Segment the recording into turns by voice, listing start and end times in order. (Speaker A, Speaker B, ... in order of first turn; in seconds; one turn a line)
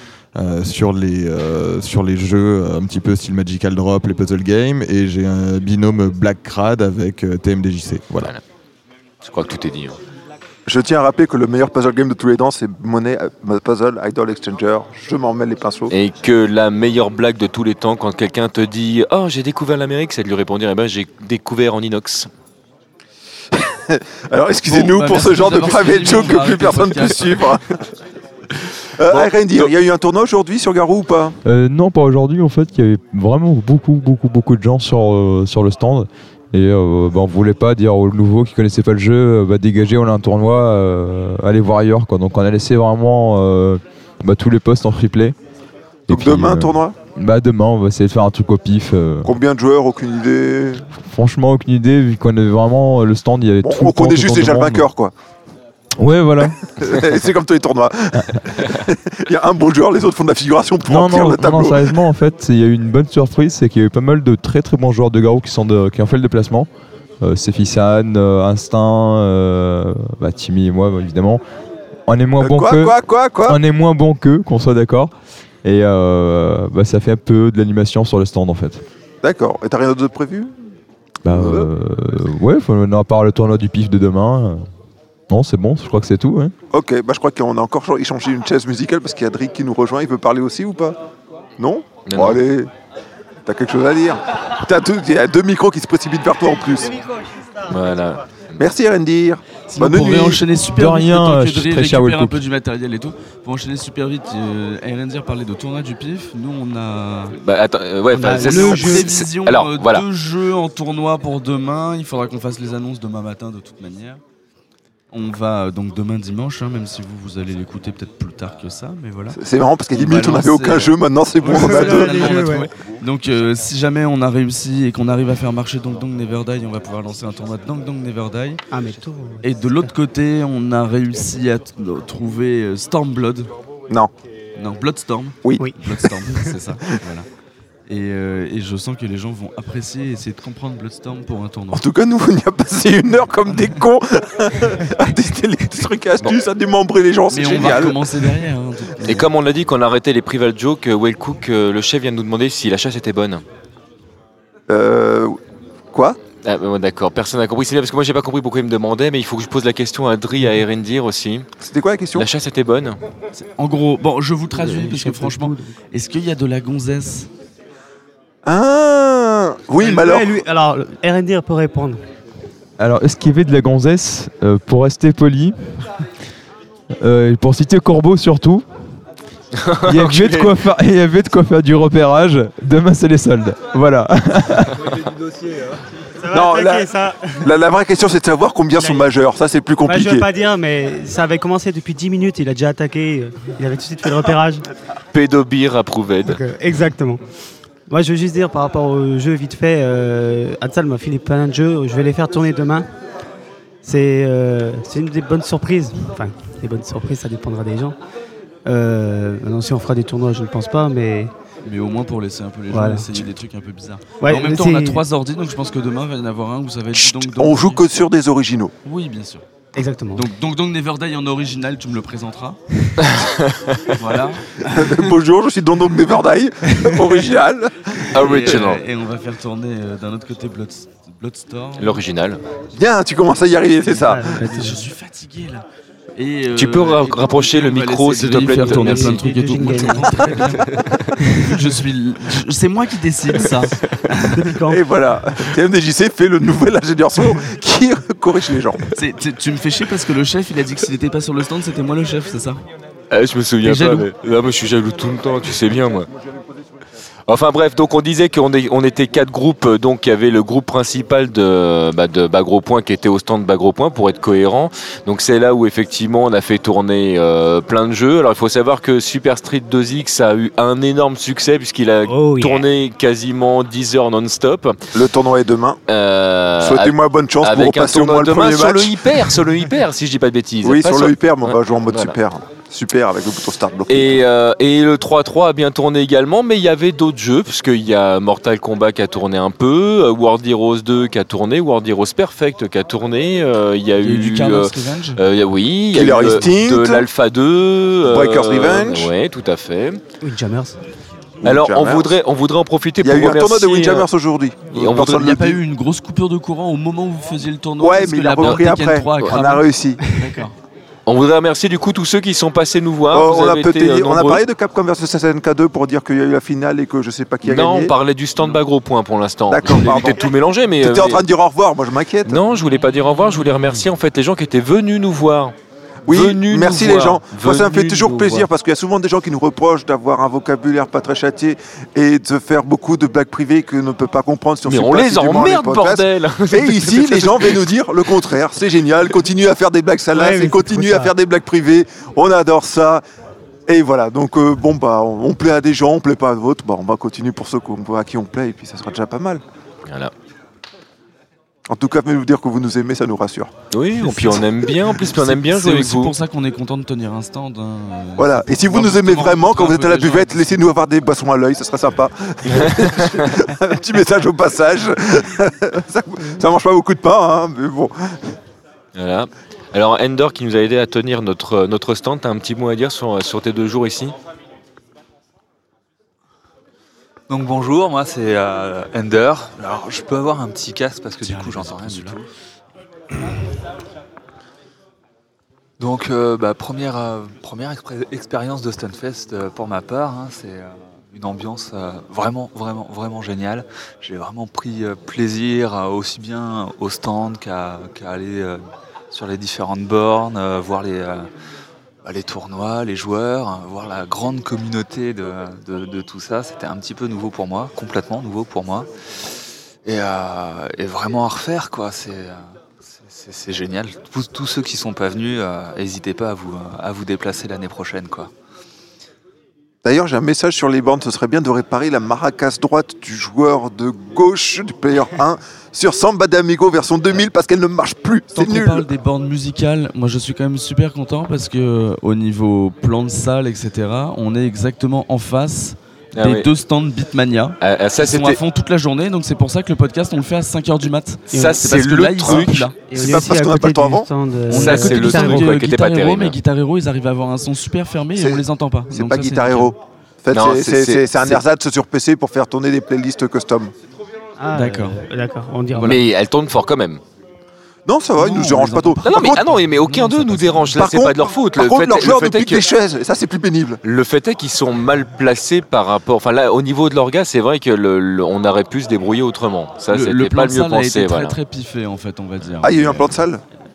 Speaker A: 0.3-8.3
Speaker B: 9.2-10.0
Speaker C: 10.7-15.9
Speaker B: 15.9-22.3
Speaker C: 23.6-27.6
Speaker D: 24.7-27.5
Speaker C: 29.0-31.4
Speaker B: 29.1-29.7
Speaker E: 31.4-45.4
Speaker E: 46.1-49.3
Speaker C: 46.1-46.9
Speaker C: 49.2-50.8
Speaker E: 51.0-54.9
Speaker C: 53.6-55.1
Speaker E: 56.0-56.6
Speaker C: 56.8-62.0
Speaker E: 60.8-66.7
Speaker E: 67.2-71.4
Speaker E: 72.1-75.1
Speaker C: 72.4-73.6
Speaker E: 75.6-78.8
Speaker C: 79.2-80.5
Speaker E: 81.2-84.6
Speaker C: 81.3-81.7
Speaker E: 85.3-86.5
Speaker C: 86.7-91.0
Speaker C: 91.6-92.7
Speaker B: 92.0-92.4
Speaker C: 93.5-97.0
Speaker B: 97.7-98.6
Speaker C: 98.6-100.4
Speaker D: 99.7-107.4
Speaker E: 100.7-102.4
Speaker B: 107.4-110.0
Speaker F: 108.1-109.1
Speaker D: 108.2-114.2
Speaker D: 115.1-119.4
Speaker C: 119.3-122.5
Speaker D: 119.9-128.6
Speaker F: 121.5-122.7
Speaker F: 128.7-129.9
Speaker D: 129.4-133.5
Speaker D: 134.5-137.3
Speaker C: 135.4-135.7
Speaker D: 137.9-141.8
Speaker C: 141.7-148.4
Speaker D: 147.3-149.2
Speaker B: 149.0-153.4
Speaker C: 154.7-155.4
Speaker C: 155.9-156.2
Speaker B: 156.4-161.4
Speaker C: 161.6-162.2
Speaker B: 162.1-163.0
Speaker D: 163.3-167.3
Speaker F: 164.5-165.8
Speaker C: 168.4-170.3
Speaker F: 169.8-172.0
Speaker E: 172.8-175.6
Speaker E: 177.0-178.6
Speaker B: 179.6-180.5
Speaker E: 179.8-184.8
Speaker F: 186.2-187.5
Speaker C: 186.3-186.9
Speaker C: 187.4-190.2
Speaker F: 188.7-189.1
Speaker F: 189.8-194.6
Speaker B: 195.1-196.4
Speaker F: 196.3-197.2
Speaker F: 197.9-202.9
Speaker F: 203.8-207.9
Speaker F: 208.7-211.3
Speaker D: 211.6-217.8
Speaker F: 212.7-213.1
Speaker F: 214.2-215.0
Speaker C: 217.0-218.7
Speaker D: 218.8-219.4
Speaker F: 219.7-220.3
Speaker D: 220.1-222.6
Speaker B: 223.1-223.8
Speaker D: 224.0-225.0
Speaker C: 224.7-228.2
Speaker B: 228.1-228.8
Speaker D: 228.2-232.0
Speaker B: 231.8-232.4
Speaker C: 232.7-234.4
Speaker D: 233.9-235.6
Speaker F: 234.1-234.8
Speaker D: 236.2-240.7
Speaker B: 236.5-239.2
Speaker F: 238.6-240.6
Speaker F: 241.3-241.7
Speaker D: 241.4-244.3
Speaker F: 244.3-244.8
Speaker C: 244.7-248.8
Speaker D: 248.9-252.6
Speaker B: 253.1-256.1
Speaker D: 253.6-254.1
Speaker B: 257.3-274.8
Speaker F: 272.1-272.6
Speaker C: 274.9-275.8
Speaker B: 275.9-282.1
Speaker C: 276.6-279.2
Speaker C: 280.6-284.2
Speaker B: 283.9-300.0
Speaker D: 294.0-295.2
Speaker C: 295.9-297.1
Speaker C: 298.1-299.1
Speaker F: 300.2-300.8
Speaker C: 301.4-302.1
Speaker B: 301.4-304.1
Speaker C: 303.0-305.6
Speaker B: 304.7-305.1
Speaker D: 305.0-310.5
Speaker C: 307.8-310.0
Speaker B: 308.4-308.6
Speaker F: 310.0-310.4
Speaker B: 311.1-314.4
Speaker C: 313.1-317.9
Speaker B: 317.4-321.2
Speaker C: 319.5-322.4
Speaker B: 322.2-325.5
Speaker B: 326.1-328.5
Speaker C: 326.1-343.0
Speaker B: 334.6-337.6
Speaker F: 340.1-341.1
Speaker C: 343.7-349.4
Speaker B: 349.9-350.1
Speaker C: 351.7-353.5
Speaker B: 353.7-356.1
Speaker D: 354.1-354.4
Speaker D: 355.0-360.7
Speaker C: 358.2-368.3
Speaker B: 368.9-374.1
Speaker G: 377.3-382.2
Speaker D: 381.2-382.2
Speaker G: 385.8-398.6
Speaker G: 399.1-401.3
Speaker G: 402.0-408.9
Speaker G: 409.9-418.3
Speaker C: 419.8-428.9
Speaker D: 428.3-443.1
Speaker B: 436.1-436.5
Speaker B: 437.6-438.4
Speaker B: 441.3-442.7
Speaker F: 442.9-445.5
Speaker C: 442.9-444.1
Speaker D: 444.5-449.7
Speaker B: 444.5-446.4
Speaker C: 448.1-453.7
Speaker B: 450.3-451.3
Speaker F: 454.4-456.1
Speaker D: 454.5-455.0
Speaker B: 455.8-457.0
Speaker C: 457.9-459.4
Speaker D: 458.2-460.7
Speaker B: 459.0-462.7
Speaker C: 460.7-463.8
Speaker B: 463.8-471.4
Speaker D: 469.9-473.1
Speaker C: 472.6-473.4